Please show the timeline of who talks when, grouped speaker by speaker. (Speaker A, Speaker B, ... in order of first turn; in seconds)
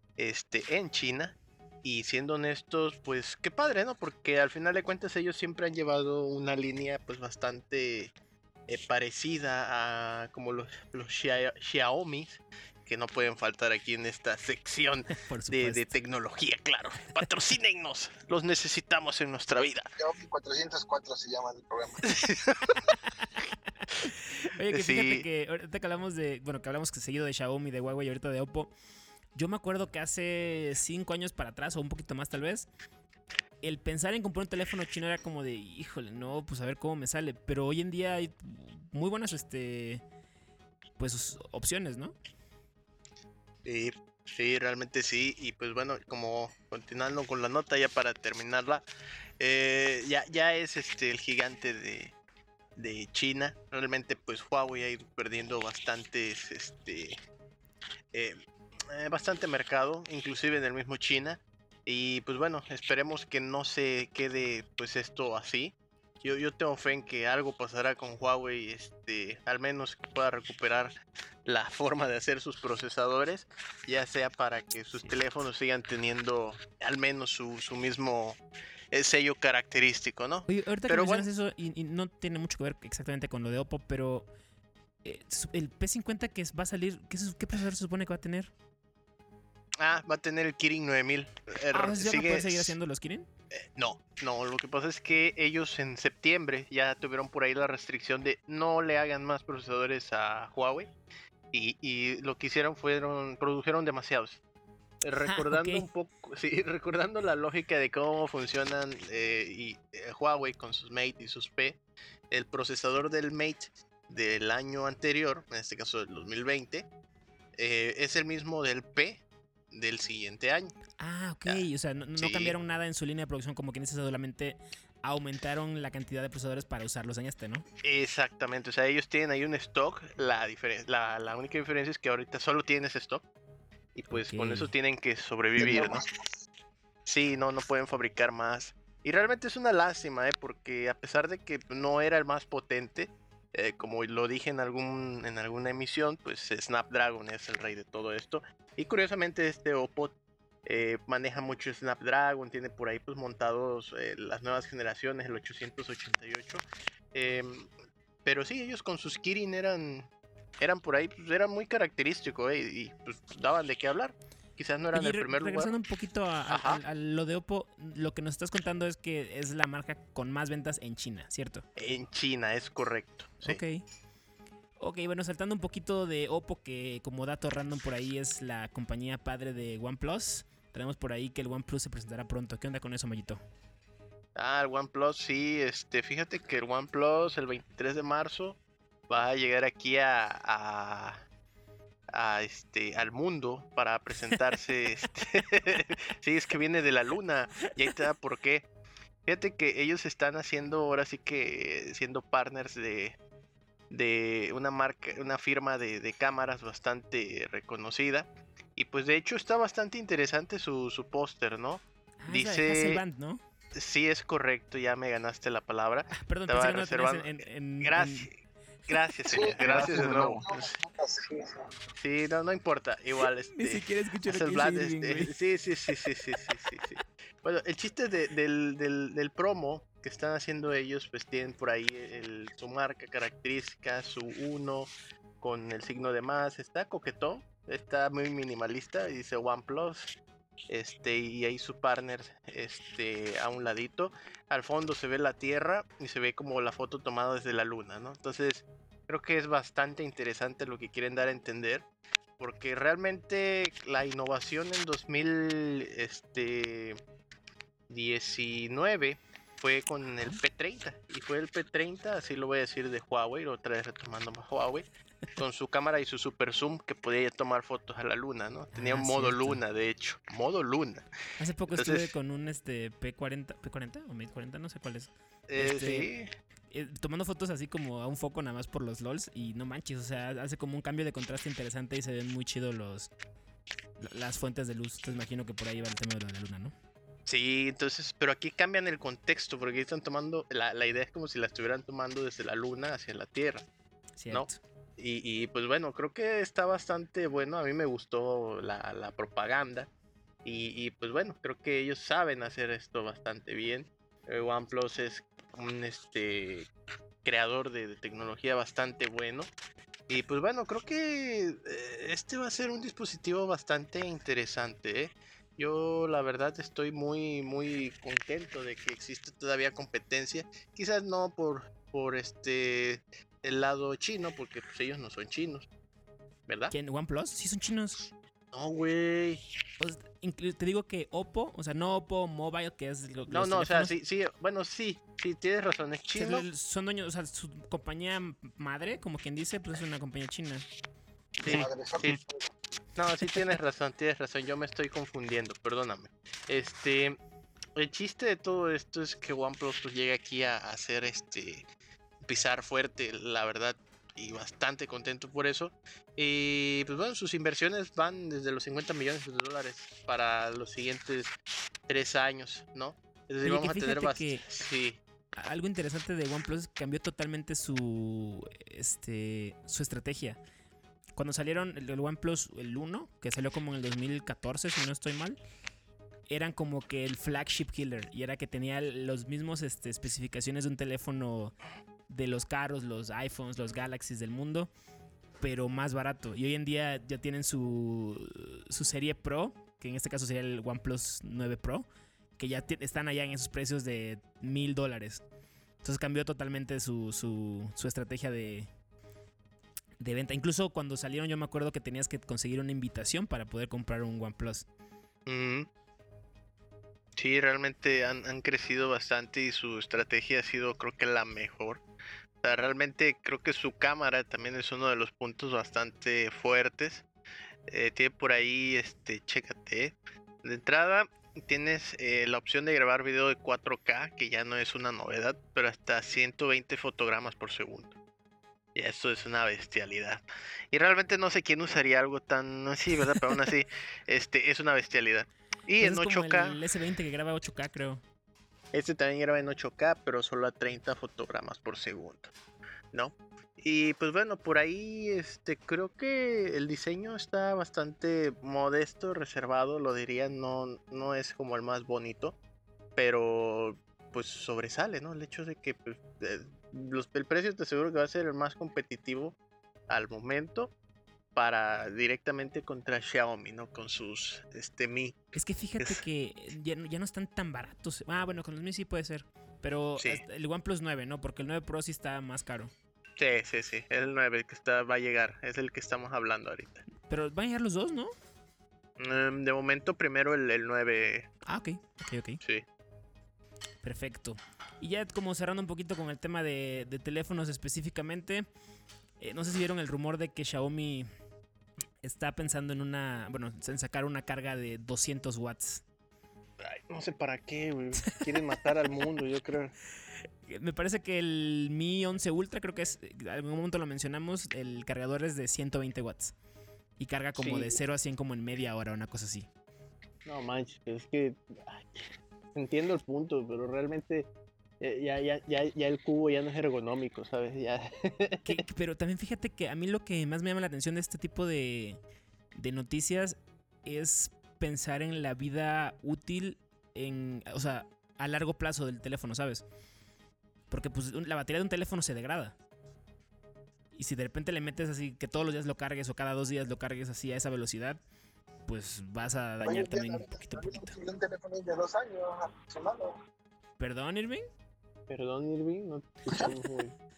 Speaker A: 0.2-8.1, 8.7-19.9, 22.0-22.9, 24.7-25.2, 43.6-48.8, 49.4-52.1, 52.8-57.2, 58.9-70.9, 71.5-78.4, 78.9-81.2, 89.8-92.8, 93.5-100.9, 101.5-104.4, 105.0-111.8, 112.3-116.9, 117.6-120.7, 122.2-122.5, 127.8-133.2, 133.9-136.0, 137.1-150.1, 150.7-156.6, 157.1-157.7, 158.2-160.1, 160.6-165.7, 166.5-166.8, 171.8-173.6, 184.3-188.6, 189.1-191.2, 192.1-198.7, 199.2-203.2, 203.9-213.0, 213.8-218.4, 218.9-220.8, 222.0-234.9, 235.4-240.2, 240.7-251.8, 252.4-257.0, 257.9-271.1, 271.7-272.1, 275.5-276.3, 287.3-293.6, 294.3-299.9, 300.4-306.7, 307.2-309.5, 310.1-325.7, 326.5-326.7, 328.5-329.4, 333.3-336.4, 341.4-342.2, 342.9-347.2, 347.8-351.6, 352.2-361.3, 361.9-365.0, 405.3-405.7, 407.2-411.8, 412.4-417.1, 417.7-427.9, 428.7-436.6, 438.7-442.3, 442.9-452.3, 452.9-459.4, 459.9-460.7, 461.3-466.0, 473.2-476.8, 479.0-481.3, 496.6-499.7, 507.4-507.8, 510.2-512.0, 512.5-514.3, 514.8-518.6, 545.1-546.9
Speaker B: 15.2-15.9, 24.0-28.7, 29.3-32.7, 33.6-40.0, 41.0-42.1, 80.5-84.3, 85.0-88.5, 91.7-93.3, 105.2-105.9, 121.0-127.6, 134.1-134.7, 164.9-171.6, 173.4-173.8, 174.8-183.4, 212.2-213.4, 216.2-218.3, 219.6-220.2, 223.2-225.3, 268.7-269.6, 271.4-276.1, 276.7-283.1, 284.0-286.7, 294.2-294.6, 326.7-328.1, 329.8-333.9, 336.1-340.6, 363.4-364.4, 365.3-370.4, 371.2-375.4, 376.3-381.6, 382.1-384.7, 385.4-391.9, 392.4-395.2, 395.8-398.7, 400.0-404.6, 435.8-438.0, 465.3-472.7, 477.1-478.1, 481.4-482.4, 483.8-488.5, 489.2-491.1, 492.0-495.8, 500.5-506.3, 507.0-509.5, 518.4-522.0, 522.6-529.6, 530.7-532.6, 533.9-538.0, 538.7-540.9, 543.8-544.4, 546.3-546.6
Speaker C: 20.0-22.1, 135.6-136.1, 219.3-221.7, 341.4-342.5, 539.6-543.1